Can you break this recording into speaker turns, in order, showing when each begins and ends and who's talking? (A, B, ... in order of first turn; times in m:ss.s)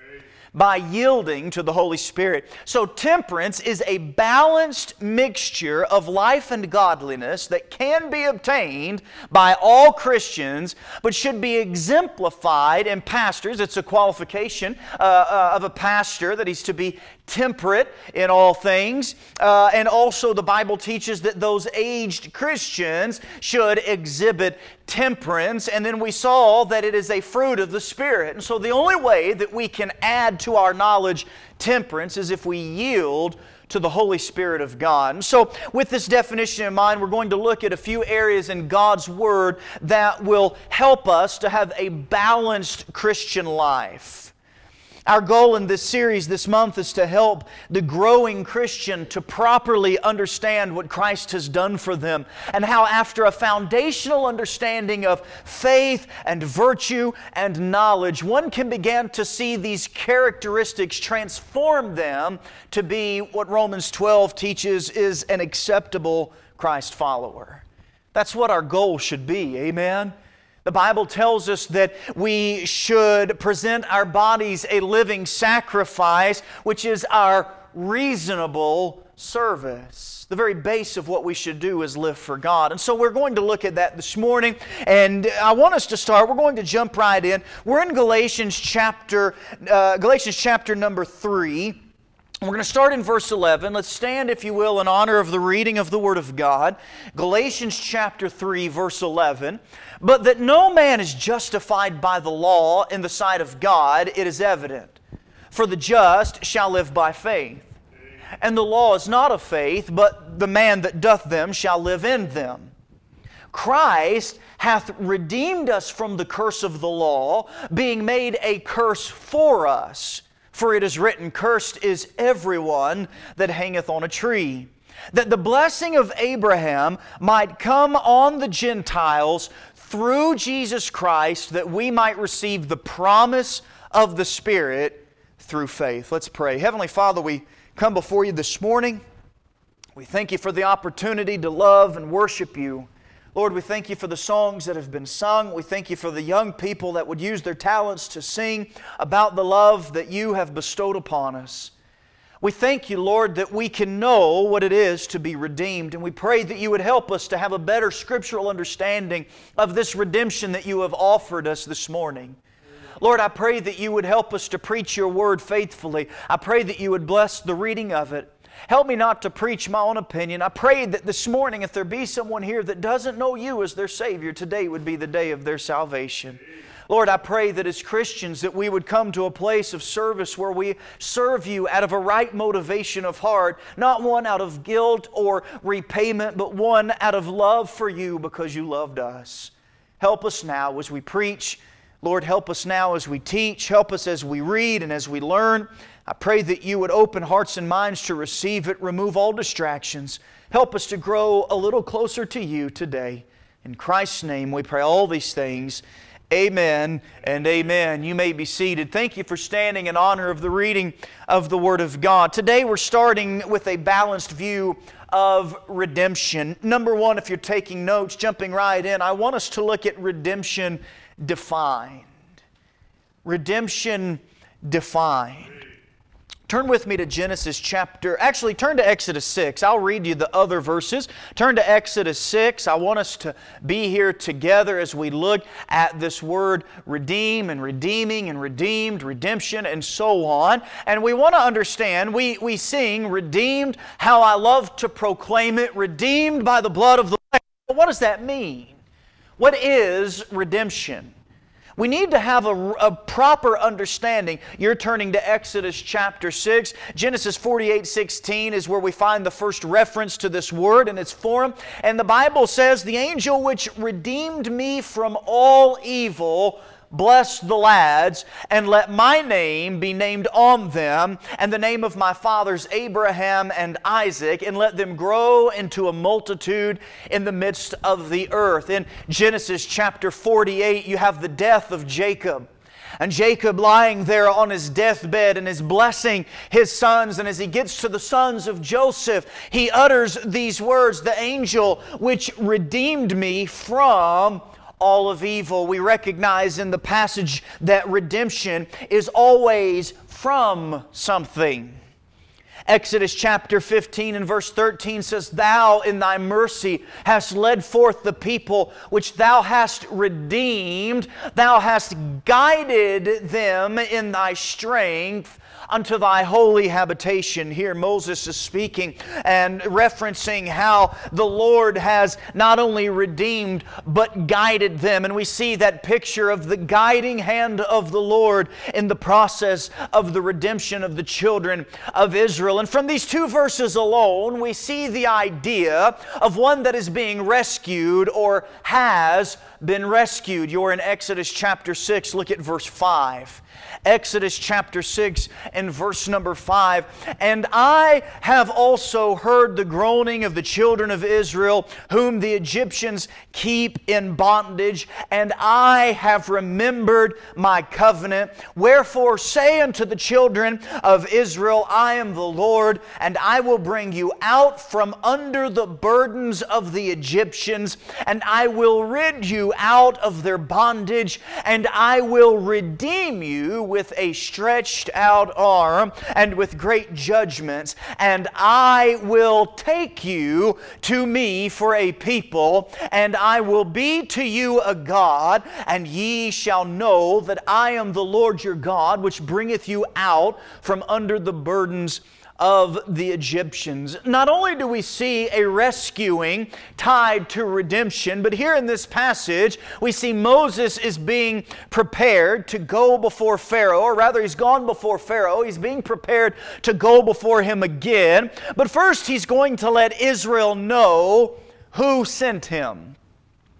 0:00.5-0:44.3 A
0:45.1-1:10.1 A
1:10.6-1:31.8 A
1:32.4-1:45.0 A
1:45.5-1:47.7 A
1:48.4-1:52.7 A
1:53.5-2:19.0 A
2:20.0-2:31.7 A
2:32.4-2:42.4 A
2:43.0-3:42.1 A
3:43.2-3:45.6 A
3:46.5-4:08.8 A
4:09.4-4:11.1 A
4:11.8-4:42.5 A
4:43.0-5:01.8 A
5:02.7-6:53.0 A